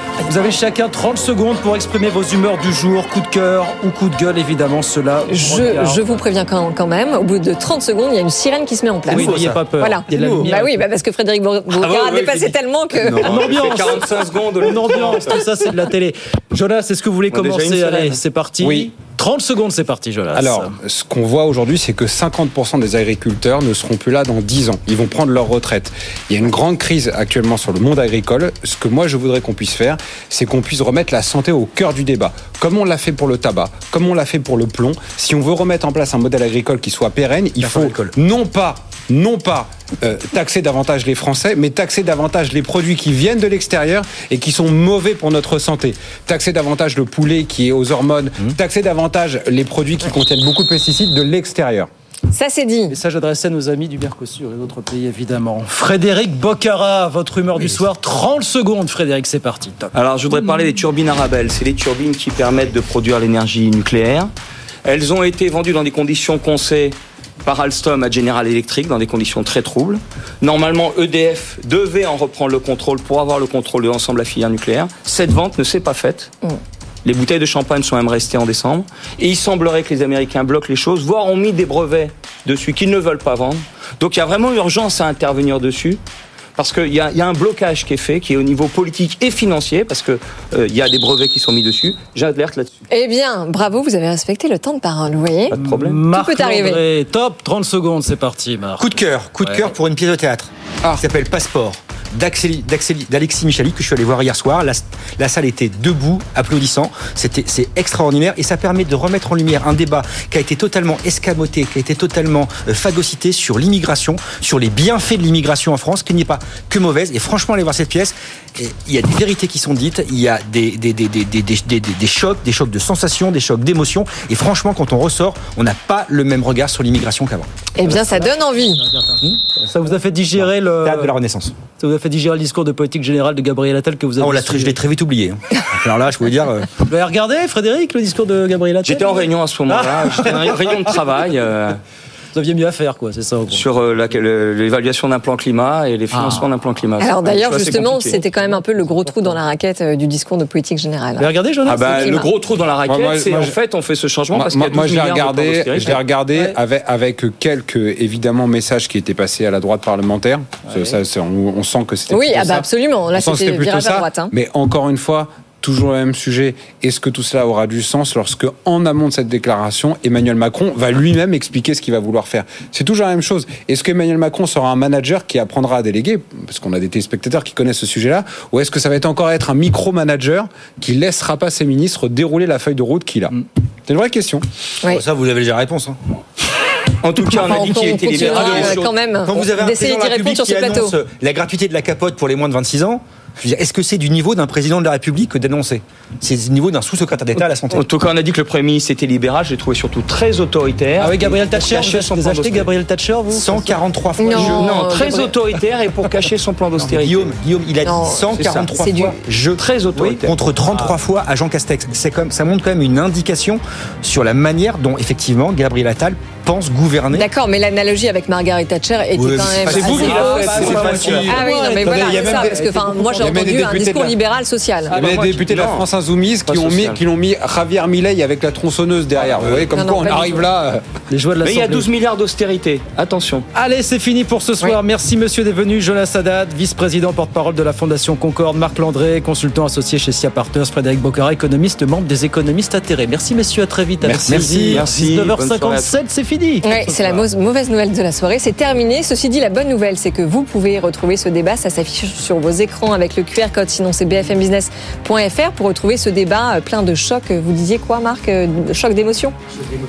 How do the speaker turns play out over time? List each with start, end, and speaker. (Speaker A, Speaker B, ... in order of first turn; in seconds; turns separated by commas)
Speaker A: 0.2-6.1, Speaker B: 5.3-13.5, Speaker A: 9.1-10.8, Speaker C: 11.7-15.3, Speaker A: 13.2-14.0, Speaker A: 14.6-20.8, Speaker C: 17.3-18.2, Speaker D: 18.6-18.9, Speaker D: 20.3-51.9, Speaker E: 37.6-38.1, Speaker B: 52.3-53.0, Speaker A: 52.9-59.9, Speaker C: 59.9-64.3, Speaker C: 64.8-76.3, Speaker C: 77.0-86.0, Speaker C: 86.6-92.8, Speaker B: 92.9-96.8, Speaker C: 95.5-96.0, Speaker A: 95.5-99.7, Speaker E: 98.8-127.5, Speaker B: 127.8-128.8, Speaker A: 128.9-131.2, Speaker E: 130.4-131.6, Speaker A: 131.8-134.8, Speaker E: 134.2-136.7, Speaker A: 136.9-140.9, Speaker C: 138.8-141.8, Speaker A: 142.3-143.7, Speaker C: 143.5-148.2, Speaker A: 146.1-146.5, Speaker B: 147.0-151.3, Speaker A: 147.2-149.4, Speaker A: 151.2-152.3, Speaker C: 151.7-156.0, Speaker B: 151.9-152.3, Speaker D: 152.9-153.6, Speaker D: 154.3-183.3, Speaker A: 155.7-156.6, Speaker B: 162.1-164.3, Speaker D: 183.9-184.4, Speaker E: 184.8-186.0, Speaker C: 187.0-188.9, Speaker B: 187.2-191.0, Speaker E: 188.1-197.8, Speaker C: 197.7-202.7, Speaker A: 201.0-203.7, Speaker E: 203.3-204.8, Speaker B: 204.2-205.3, Speaker C: 204.4-207.3, Speaker E: 206.9-217.3, Speaker B: 207.8-209.2, Speaker C: 208.3-208.7, Speaker C: 209.6-210.4, Speaker B: 217.1-224.9, Speaker E: 219.2-219.7, Speaker A: 219.7-223.8, Speaker D: 219.8-221.4, Speaker C: 220.0-221.1, Speaker E: 220.7-221.0, Speaker D: 222.0-222.4, Speaker D: 223.1-224.2, Speaker A: 224.9-225.4, Speaker D: 224.9-230.8, Speaker C: 224.9-225.9, Speaker C: 226.4-227.0, Speaker B: 229.7-230.5, Speaker A: 231.1-231.9, Speaker C: 231.4-233.4, Speaker A: 233.6-247.2, Speaker D: 244.0-244.8, Speaker C: 244.7-245.9, Speaker B: 246.6-259.4